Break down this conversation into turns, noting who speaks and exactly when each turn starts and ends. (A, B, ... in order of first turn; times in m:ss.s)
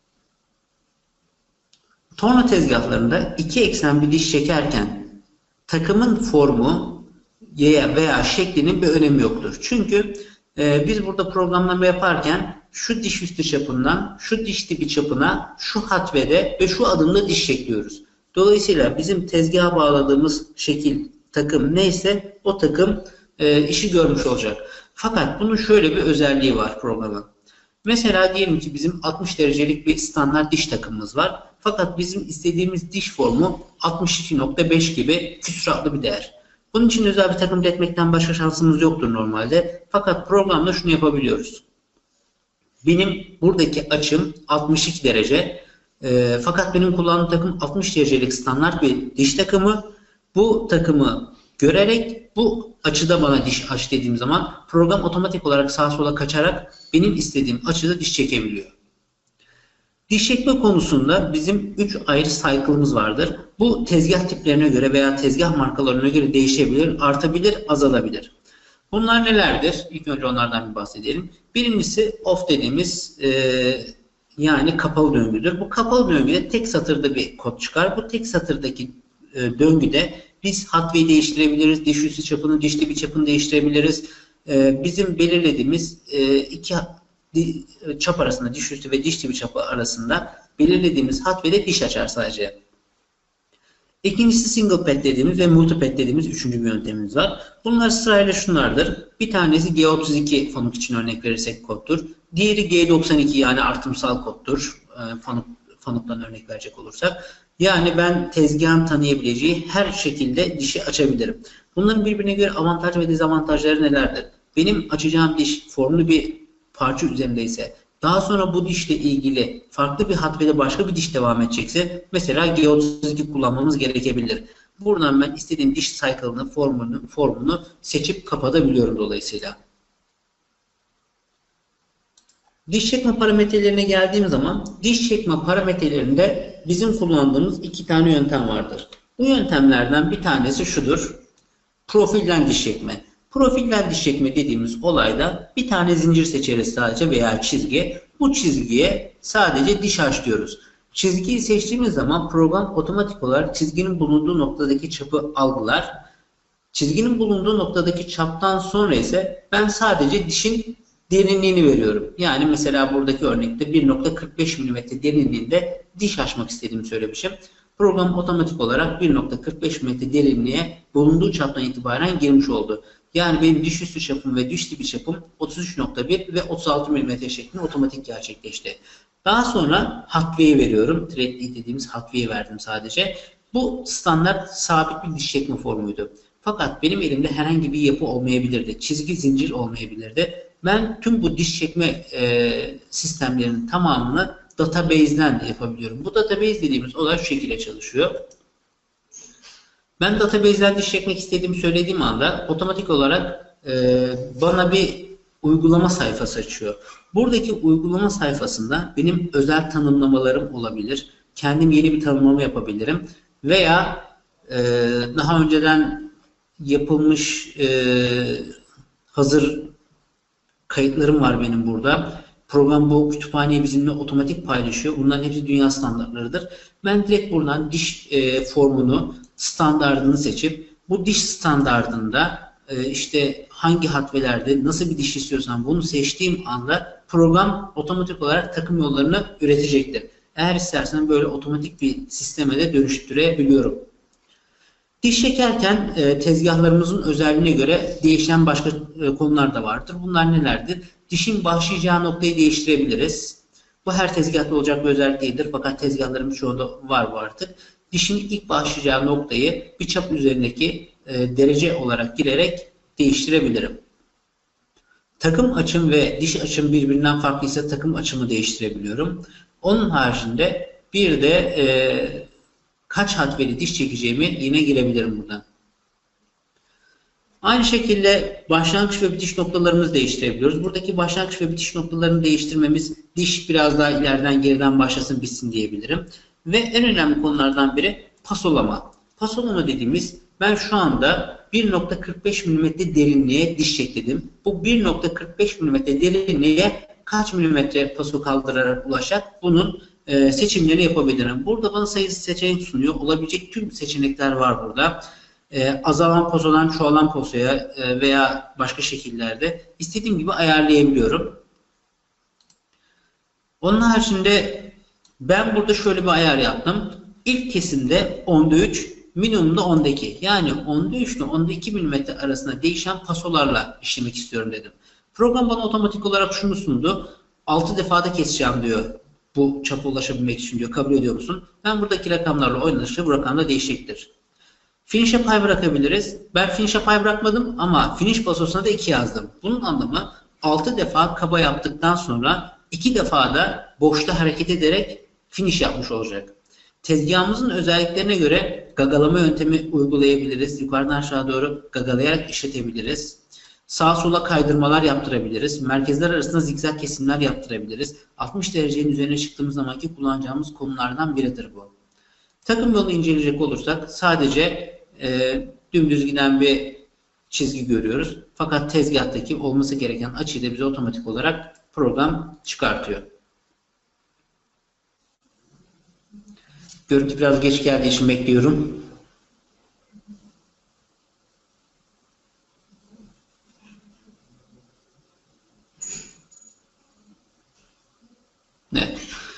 0:02.2-0:27.3 A
0:27.8-0:41.6 A
0:42.8-0:58.7 A
1:00.1-1:08.3 A
1:08.9-1:32.6 A
1:34.0-2:09.6 A
2:12.7-2:21.2 A
2:21.9-2:35.9 A
2:36.7-3:18.1 A
3:20.0-3:38.6 A
3:39.1-3:39.8 A
3:40.7-4:03.9 A
4:05.0-4:23.8 A
4:25.2-4:32.3 A
4:32.9-4:35.4 A
4:37.4-5:11.4 A
5:13.6-5:34.1 A
5:34.9-6:01.7 A
6:02.4-6:13.0 A
6:16.9-6:18.9 A
6:28.7-6:29.1 A